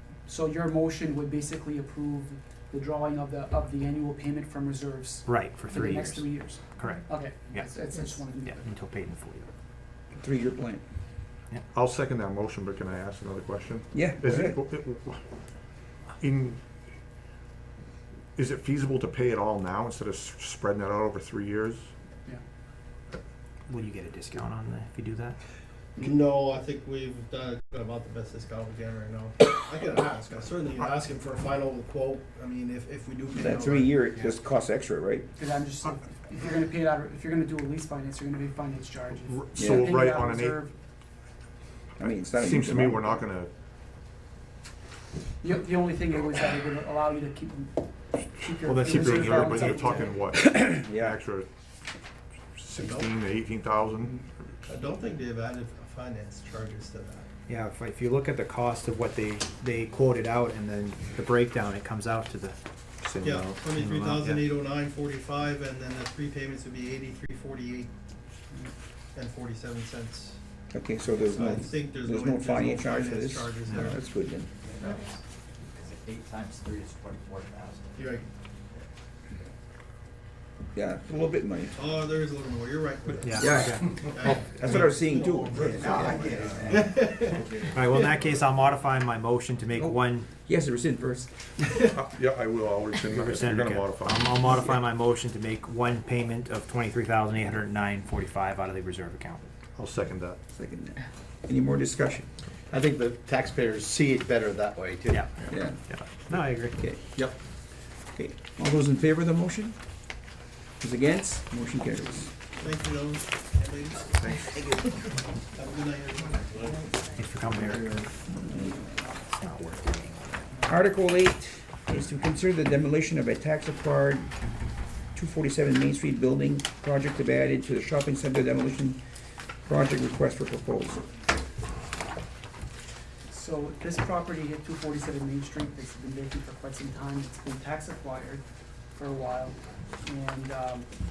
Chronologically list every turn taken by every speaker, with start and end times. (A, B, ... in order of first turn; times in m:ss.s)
0:00.2-0:08.7 A
0:05.2-0:09.5 B
0:10.1-0:10.8 C
0:11.7-0:15.2 D
0:13.9-0:14.6 C
0:16.2-0:16.6 D
0:18.4-0:21.9 D
0:23.7-0:25.4 B
0:26.0-0:34.0 E
0:33.3-0:35.3 C
0:35.3-0:40.7 A
0:39.2-0:40.6 D
0:39.6-0:39.9 C
0:42.0-0:43.2 C
0:42.4-0:43.5 D
0:45.4-0:50.2 A
0:48.6-0:51.5 D
0:49.3-0:50.0 B
0:50.3-0:51.2 C
0:52.6-0:54.2 D
0:52.8-0:53.1 E
0:54.7-0:57.2 E
0:57.5-1:04.4 B
1:03.2-1:07.9 E
1:09.2-1:10.4 E
1:10.7-1:14.5 C
1:11.2-1:14.0 E
1:14.8-1:15.1 E
1:15.8-1:17.8 F
1:17.9-1:18.2 E
1:20.7-1:21.8 C
1:21.8-1:27.5 E
1:23.2-1:24.7 B
1:23.3-1:26.4 C
1:25.6-1:27.7 G
1:26.6-1:26.9 F
1:27.2-1:30.3 B
1:29.8-1:32.0 C
1:31.8-1:34.6 D
1:33.0-1:39.5 B
1:39.8-1:40.4 D
1:40.6-1:42.3 C
1:43.9-1:45.2 G
1:45.1-1:46.8 B
1:45.5-1:45.8 C
1:46.7-1:47.2 C
1:48.1-1:49.8 C
1:50.8-1:52.3 C
1:52.6-1:54.2 E
1:54.2-1:54.6 D
1:55.5-1:56.9 E
1:57.2-1:58.1 B
1:57.8-1:59.0 C
1:59.2-2:00.5 B
2:00.7-2:04.3 C
2:05.1-2:09.0 C
2:09.7-2:11.0 C
2:13.3-2:18.4 A
2:19.0-2:20.9 A